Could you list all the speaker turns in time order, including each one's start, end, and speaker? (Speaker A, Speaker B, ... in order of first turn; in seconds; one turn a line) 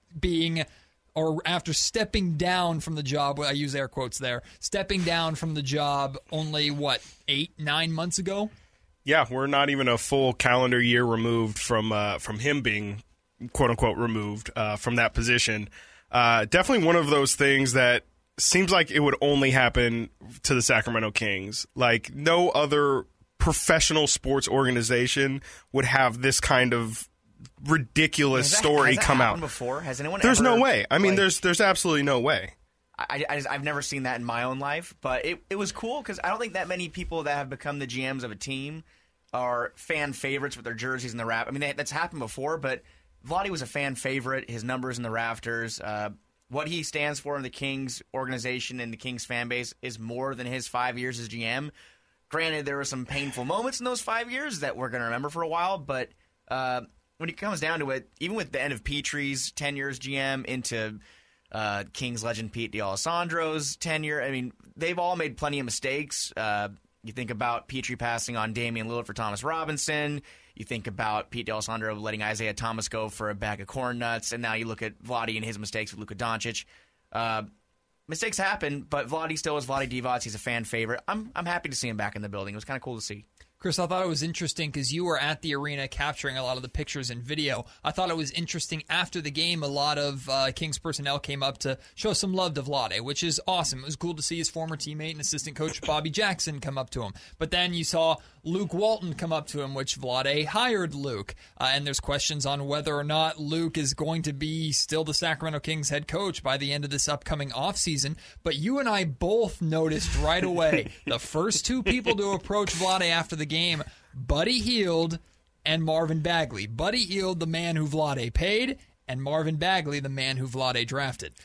Speaker A: 0.1-0.6
Speaker A: 1.1-8.5
Speaker B: 9.0-27.1
Speaker B: 27.6-29.4
Speaker C: 28.3-31.3
Speaker B: 30.2-32.5
Speaker C: 33.0-51.7
Speaker C: 52.3-61.0
Speaker C: 61.5-77.5
Speaker C: 78.1-83.2
Speaker A: 83.6-121.3